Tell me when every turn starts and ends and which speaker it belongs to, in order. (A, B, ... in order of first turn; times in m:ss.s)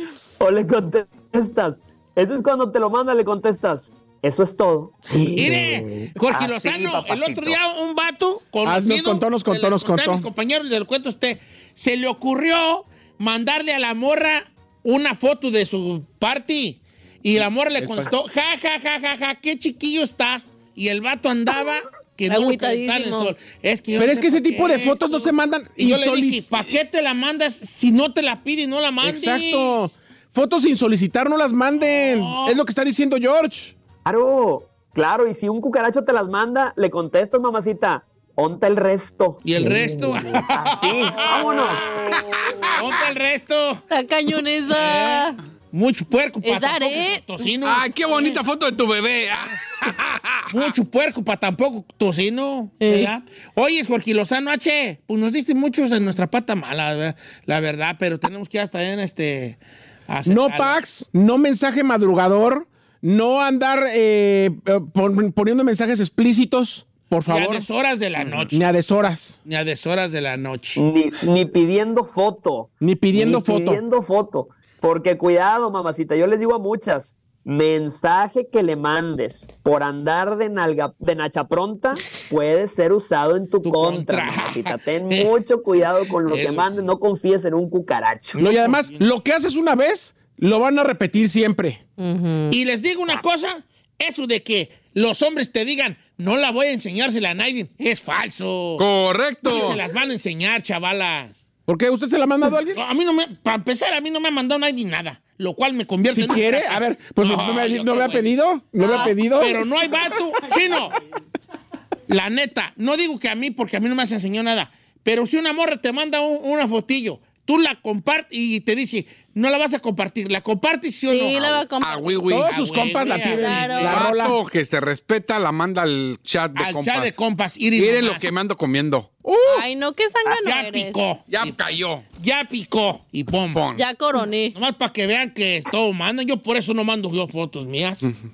0:00.4-0:07.6 A
0:05.4-0:29.8 B
0:08.6-0:10.3 C
0:17.8-0:18.1 C
0:22.3-0:23.4 D
0:24.0-0:26.5 C
0:29.0-0:33.8 C
0:31.8-0:32.6 B
0:34.0-0:41.9 A
0:39.4-0:42.2 B
0:42.2-0:43.1 E
0:42.8-0:43.8 B
0:43.9-0:45.4 D
0:44.7-0:47.9 B
0:46.4-0:47.2 D
0:47.6-0:50.7 E
0:50.5-1:00.8 B
0:52.8-0:53.1 D
1:00.3-1:07.7 C
1:07.3-1:08.6 B
1:08.5-1:09.4 C
1:09.4-1:10.8 B
1:10.8-1:28.4 A
1:12.8-1:13.8 C
1:23.6-1:25.3 B
1:26.3-1:26.9 B
1:28.4-1:29.1 B
1:28.4-1:31.8 C
1:32.0-1:32.6 D
1:32.5-1:38.9 B
1:38.8-1:39.8 E
1:39.4-1:41.4 B
1:41.7-1:42.8 C
1:42.7-1:51.0 B
1:46.1-1:49.7 C
1:48.8-1:49.1 D
1:52.1-2:01.7 B
2:01.1-2:02.2 D
2:01.8-2:02.6 E
2:02.3-2:04.4 C
2:02.4-2:04.1 B
2:03.3-2:04.1 D
2:03.8-2:07.2 E
2:06.6-2:08.4 B
2:07.8-2:09.2 E
2:09.2-2:09.7 C
2:09.4-2:11.0 D
2:10.3-2:11.6 B
2:11.3-2:12.0 E
2:12.2-2:13.7 B
2:13.5-2:13.8 E
2:13.8-2:14.6 D
2:14.5-2:18.1 B